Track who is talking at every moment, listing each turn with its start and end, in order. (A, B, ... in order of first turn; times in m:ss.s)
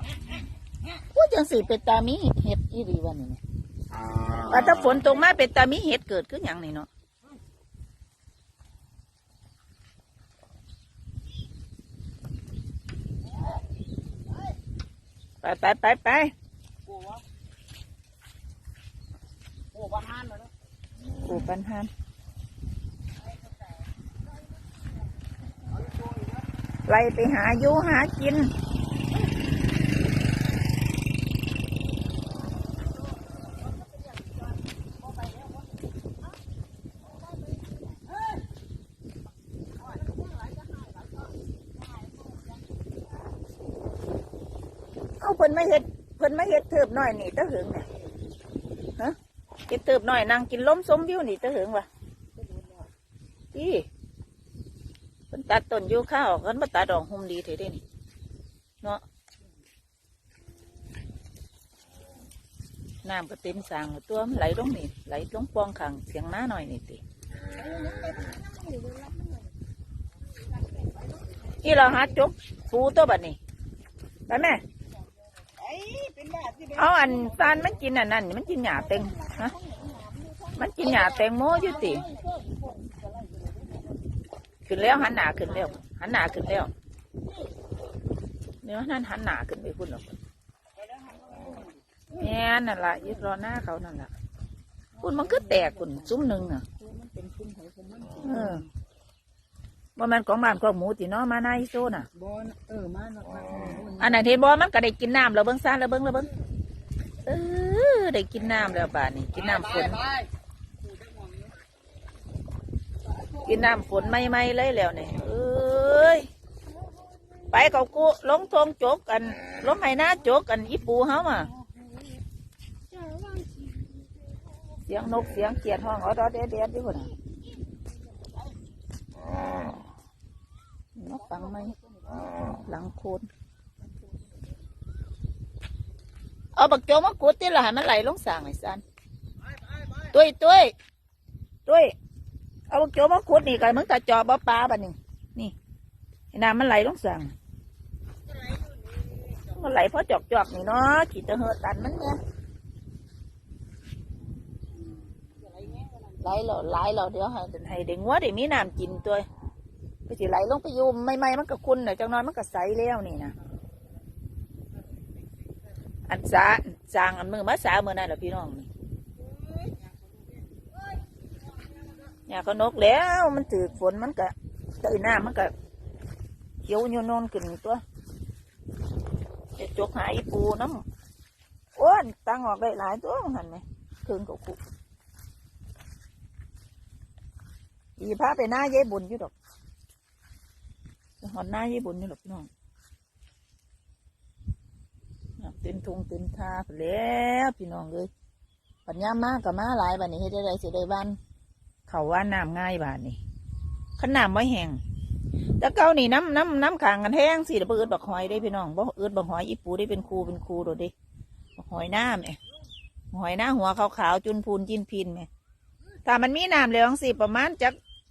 0:01.1-0:03.4 A
0:04.5-0:06.9 A
0:15.4-0:16.3 A
0:16.9-0:17.2 B
0:19.7-0:20.5 B
0:21.2-0:21.9 A
0:26.8-0:28.5 A
0:45.2-0:47.9 A
0:49.7-0:51.9 A
0:52.4-0:52.9 B
0:53.5-0:53.8 A
0:55.3-0:57.8 A
1:03.0-1:07.0 A
1:07.4-1:09.5 B
1:11.6-1:13.4 A
1:14.3-1:14.6 A
1:15.6-1:17.8 B
1:16.8-1:19.5 A
1:18.7-1:23.6 B
1:20.5-1:22.1 A
1:24.7-1:26.7 A
1:28.6-1:30.2 A
1:30.8-1:32.0 B
1:32.1-1:34.1 A
1:35.0-1:36.2 B
1:35.0-1:36.6 A
1:36.8-1:38.6 B
1:38.2-1:38.6 A
1:40.0-1:42.1 A
1:42.2-1:44.1 B
1:44.0-1:46.3 A
1:47.2-1:50.0 A
1:51.0-1:51.5 B
1:53.4-1:56.3 A
1:57.5-2:01.5 A
2:02.9-2:03.8 B
2:04.9-2:07.1 A
2:11.0-2:11.7 A
2:11.1-2:12.6 B
2:12.6-2:13.3 A
2:13.8-2:14.3 B
2:16.5-2:18.8 A
2:20.0-2:20.7 A
2:21.6-2:21.9 A
2:22.7-2:25.5 A
2:26.3-2:27.3 A
2:29.5-2:32.2 A
2:36.2-2:39.2 A
2:40.1-2:43.3 A
2:46.1-2:48.7 A
2:49.4-2:50.1 B
2:52.3-2:55.5 A
2:56.6-2:57.8 A
2:59.6-3:00.8 A
3:01.8-3:04.6 A
3:08.0-3:09.3 A
3:11.2-3:12.5 A
3:15.4-3:18.1 A
3:18.8-3:21.2 A
3:21.9-3:23.2 A
3:24.0-3:24.8 A
3:25.6-3:30.9 A
3:31.6-3:32.4 A
3:33.1-3:35.3 A
3:36.0-3:37.8 A